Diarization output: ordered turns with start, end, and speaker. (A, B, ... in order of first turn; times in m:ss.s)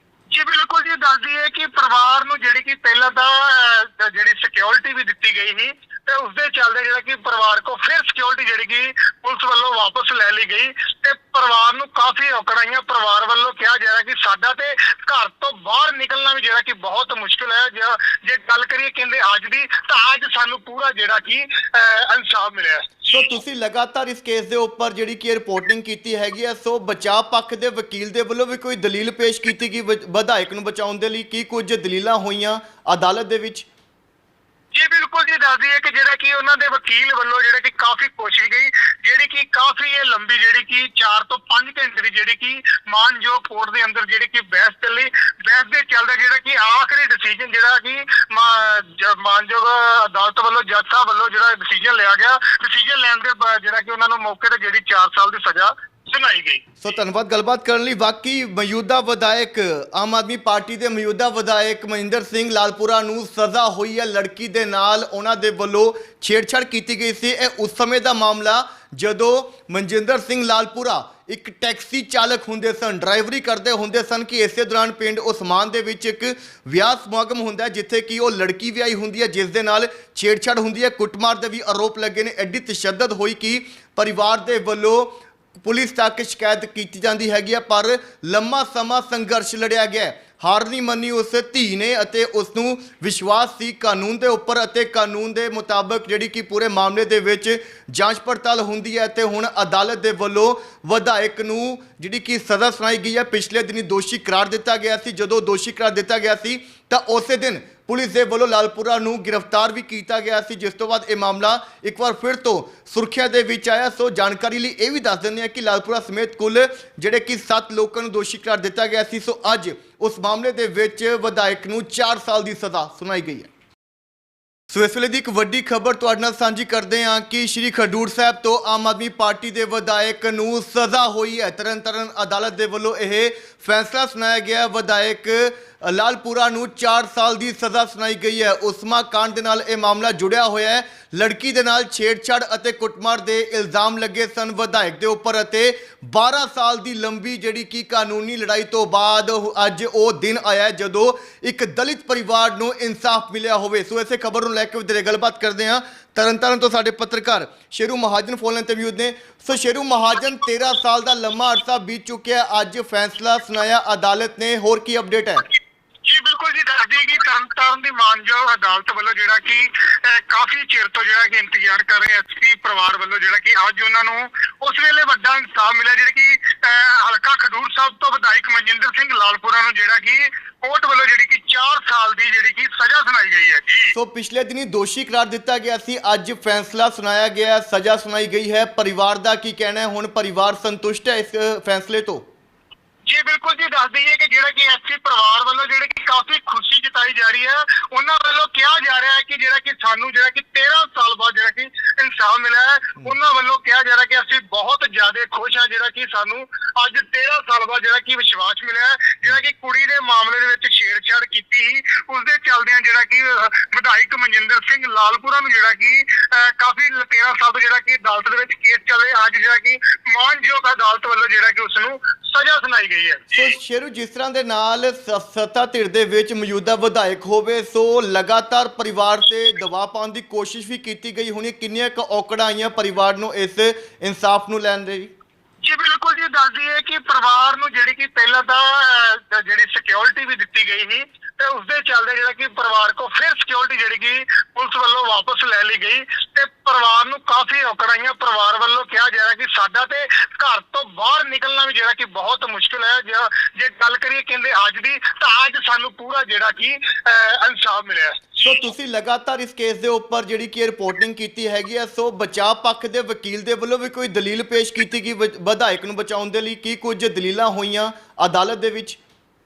0:00.3-0:23.3 A
0:23.1-0:33.7 B
0:34.7-0:56.7 A
0:56.8-2:03.5 B
2:04.7-2:45.4 B
2:46.0-3:03.9 A
3:03.9-3:12.2 B
3:13.0-3:43.6 A
3:43.3-3:55.1 B
3:55.6-4:18.7 A
4:18.4-4:29.0 B